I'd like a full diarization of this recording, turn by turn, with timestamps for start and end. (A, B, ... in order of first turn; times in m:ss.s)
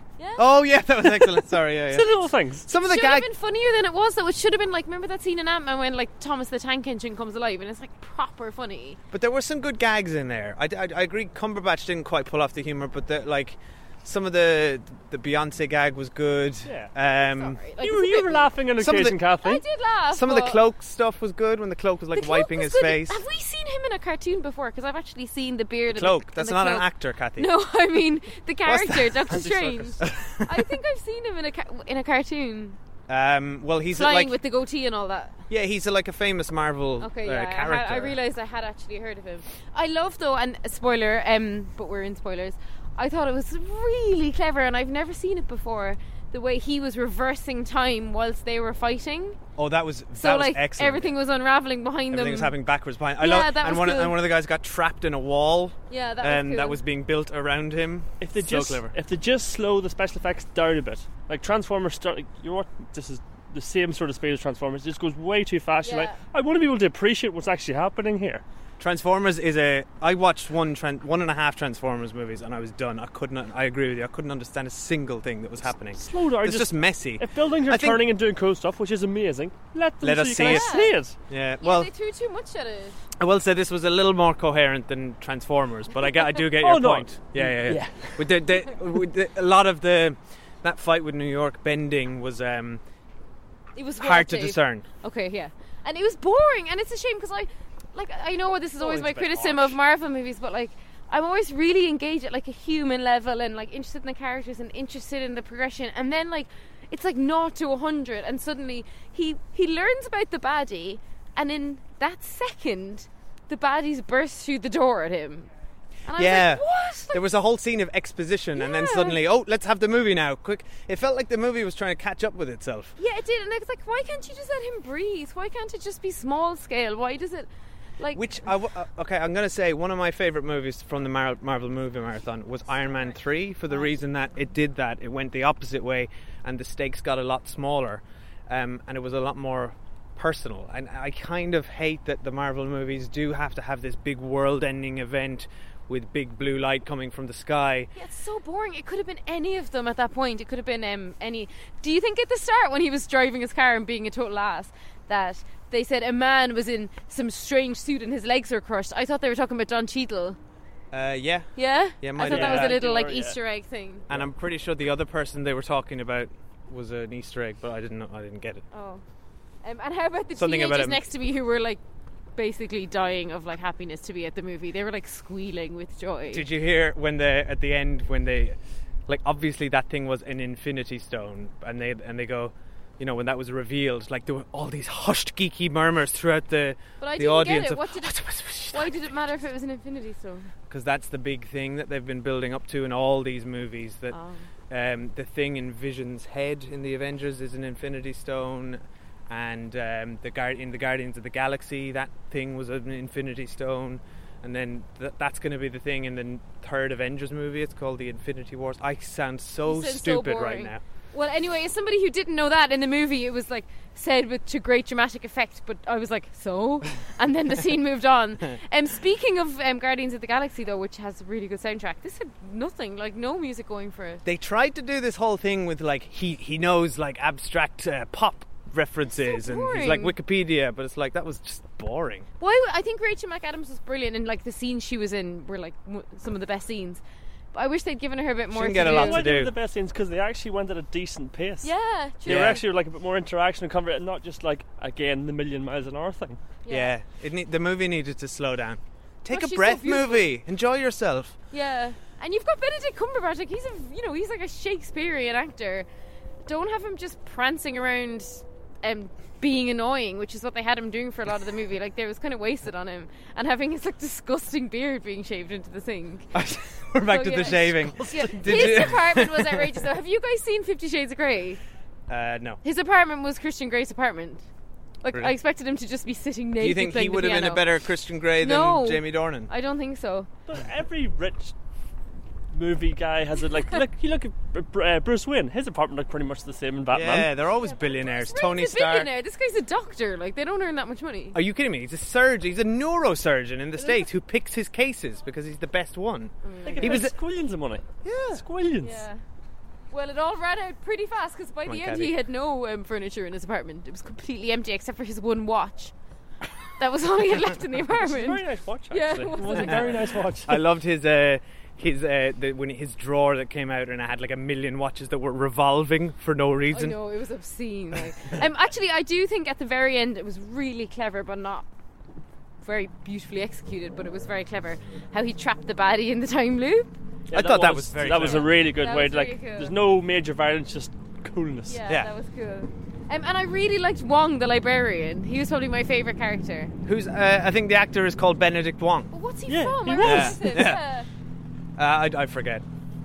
0:00.2-0:00.5 A
0:00.4-0:02.1 B
0:01.9-0:02.7 C
0:02.6-0:03.3 B
0:02.8-0:09.0 A
0:09.1-0:17.6 B
0:16.6-0:16.9 C
0:17.3-0:18.5 A
0:17.8-0:19.6 C
0:18.8-0:19.2 B
0:19.4-0:20.6 A
0:20.1-0:23.2 B
0:22.1-0:32.8 A
0:25.9-0:27.5 B
0:28.6-0:30.7 B
0:33.1-0:34.3 B
0:33.9-0:35.4 A
0:35.5-0:38.2 B
0:37.0-0:49.4 A
0:49.6-0:51.1 B
0:50.2-0:52.6 A
0:52.1-0:58.9 B
0:53.2-0:54.2 A
0:55.9-0:56.8 A
0:58.2-1:08.4 C
1:05.8-1:06.2 A
1:08.8-1:18.0 B
1:16.0-1:21.1 C
1:20.0-1:21.9 B
1:20.4-1:20.9 A
1:21.6-1:23.0 A
1:23.2-1:32.8 B
1:26.6-1:28.3 C
1:33.8-1:55.5 A
1:34.0-1:34.8 B
1:38.8-1:39.8 C
1:56.1-1:57.2 A
1:56.1-2:03.0 B
1:58.5-1:59.2 A
2:03.0-2:07.5 A
2:08.0-2:08.2 A
2:08.1-2:27.9 B
2:27.9-2:40.4 A
2:40.9-2:42.8 B
2:41.6-2:44.0 A
2:42.2-2:43.4 C
2:44.1-2:48.6 B
2:48.7-2:49.0 A
2:49.6-2:51.8 A
2:50.4-2:51.0 B
2:52.4-2:56.4 A
2:56.3-3:09.1 B
3:07.0-3:08.2 A
3:08.7-3:10.5 A
3:10.7-3:14.2 B
3:14.1-3:14.5 A
3:14.7-3:30.8 B
3:29.6-3:44.2 A
3:44.2-3:52.3 B
3:49.2-3:50.1 A
3:52.4-3:59.2 A
3:58.5-3:59.5 B
3:58.8-4:01.7 C
4:01.6-4:02.6 A
4:02.2-4:06.4 C
4:02.3-4:02.6 B
4:06.6-4:06.9 A
4:06.7-4:11.4 B
4:09.3-4:10.3 A
4:11.5-4:15.9 A
4:16.5-4:26.3 A
4:26.3-4:29.8 B
4:27.0-4:31.6 A
4:28.0-4:28.9 C
4:32.1-4:32.6 B
4:32.6-4:34.4 A
4:35.0-4:37.6 A
4:36.6-4:39.5 B
4:38.4-4:40.3 A
4:40.5-4:41.5 C
4:42.5-4:47.3 C
4:46.9-4:49.1 B
4:47.6-4:51.4 A
4:51.3-4:57.1 B
4:53.8-4:54.1 C
4:56.4-4:57.0 A
4:56.6-4:59.0 C
4:58.0-4:58.4 B
4:58.8-4:59.2 A
4:59.9-5:05.9 A
5:01.7-5:02.1 B
5:06.8-5:10.0 A
5:08.0-5:10.6 C
5:09.6-5:17.0 B
5:16.7-5:21.6 A
5:22.6-5:26.9 A
5:27.3-5:31.8 C
5:27.3-5:28.5 B
5:28.2-5:29.7 A
5:31.6-5:36.7 A
5:36.8-5:39.1 B
5:39.1-5:41.1 A
5:39.5-5:40.4 C
5:40.0-5:40.8 B
5:41.8-5:42.6 B